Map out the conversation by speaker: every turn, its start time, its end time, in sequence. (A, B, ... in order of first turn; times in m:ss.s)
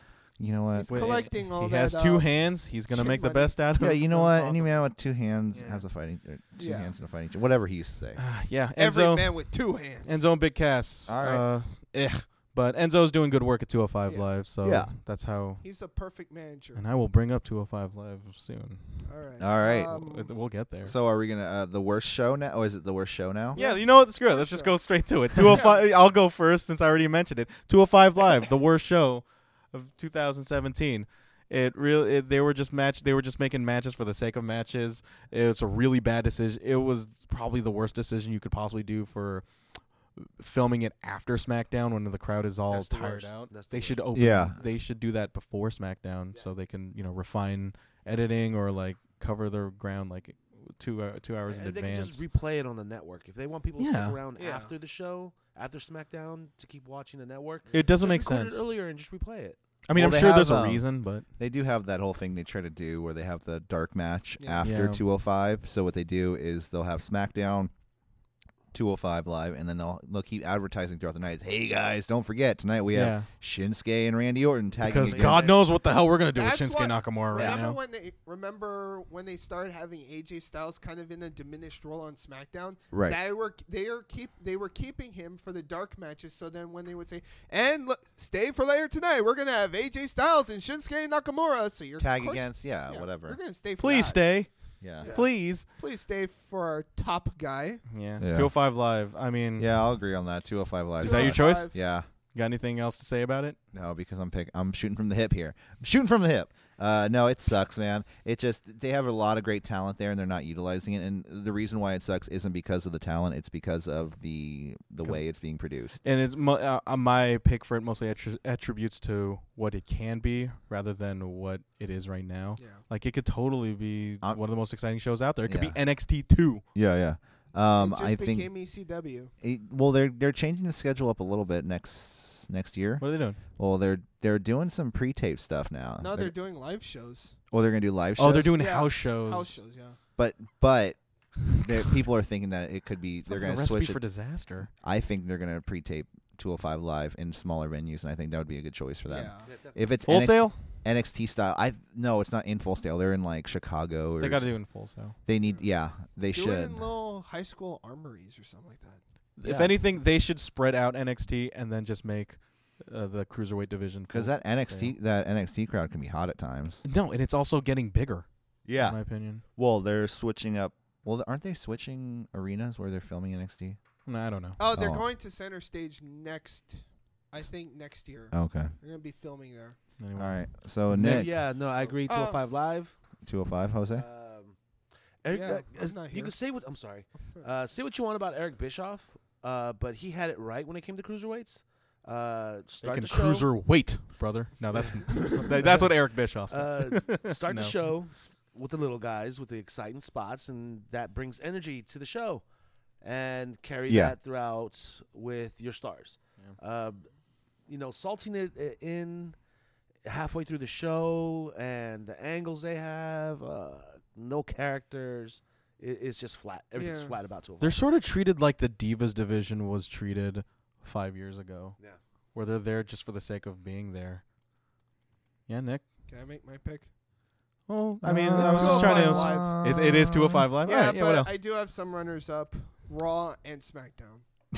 0:00.4-0:01.3 A
0:00.7-0:03.6 B
0:00.9-0:04.7 C
0:03.8-0:08.2 A
0:05.5-0:05.8 C
0:06.6-0:06.9 B
0:08.2-0:15.6 C
0:08.8-0:10.3 B
0:11.1-0:11.5 A
0:14.6-0:14.9 A
0:15.6-0:16.8 B
0:16.8-0:19.1 C
0:19.0-0:20.3 B
0:19.4-0:20.0 A
0:19.8-0:20.9 C
0:20.8-0:23.6 A
0:23.6-0:24.8 B
0:23.6-0:39.5 C
0:25.4-0:25.8 B
0:40.2-0:52.2 C
0:42.7-0:44.0 D
0:44.1-0:44.6 A
0:51.5-0:59.6 D
0:53.8-0:54.2 C
0:54.4-0:54.7 B
0:57.7-0:58.6 C
0:59.9-1:01.2 C
0:59.9-1:07.7 A
1:04.4-1:04.7 B
1:04.6-1:05.0 C
1:08.7-1:15.6 A
1:12.9-1:13.3 C
1:14.8-1:17.8 C
1:15.0-1:15.6 D
1:16.3-1:34.2 B
1:17.3-1:17.7 D
1:22.9-1:23.2 A
1:32.0-1:33.4 A
1:33.8-1:35.6 C
1:34.8-1:35.2 A
1:35.0-1:37.8 B
1:37.9-1:39.7 C
1:38.2-1:38.5 A
1:39.6-1:42.1 A
1:41.0-1:41.8 B
1:41.0-1:41.8 C
1:42.3-1:43.6 C
1:43.7-1:56.0 A
1:56.0-2:06.6 C
2:05.4-2:05.8 A
2:06.7-2:08.5 A
2:07.8-2:09.3 B
2:09.4-2:16.3 A
2:13.0-2:13.4 C
2:16.0-2:17.4 B
2:17.5-2:18.6 A
2:18.2-2:19.6 C
2:18.6-2:20.0 B
2:20.2-2:24.0 A
2:23.3-2:24.7 C
2:24.8-2:34.6 A
2:29.1-2:29.5 B
2:29.5-2:29.8 D
2:30.1-2:30.6 C
2:34.2-2:35.2 C
2:35.3-2:36.8 A
2:36.3-2:39.0 B
2:39.4-2:44.9 C
2:39.4-2:39.8 A
2:44.1-2:46.8 A
2:46.8-2:49.4 C
2:48.7-2:53.8 A
2:54.1-2:54.6 C
2:54.6-2:59.8 B
2:54.7-2:55.0 A
2:58.3-2:58.7 A
3:00.0-3:01.2 C
3:00.2-3:01.4 A
3:00.9-3:03.0 D
3:02.1-3:02.4 B
3:03.2-3:04.1 A
3:03.9-3:04.6 D
3:05.2-3:13.5 D
3:05.3-3:06.4 B
3:12.8-3:17.9 C
3:14.7-3:15.9 D
3:16.5-3:22.4 D
3:23.0-3:27.1 D
3:23.9-3:24.2 A
3:27.7-3:29.4 D
3:30.0-3:37.8 D
3:36.8-3:37.2 B
3:37.6-3:41.8 C
3:42.3-3:44.2 C
3:45.5-3:45.8 C
3:46.1-3:46.9 B
3:47.7-3:51.3 C
3:48.0-3:50.5 A
3:48.3-3:49.6 B
3:50.6-3:54.2 B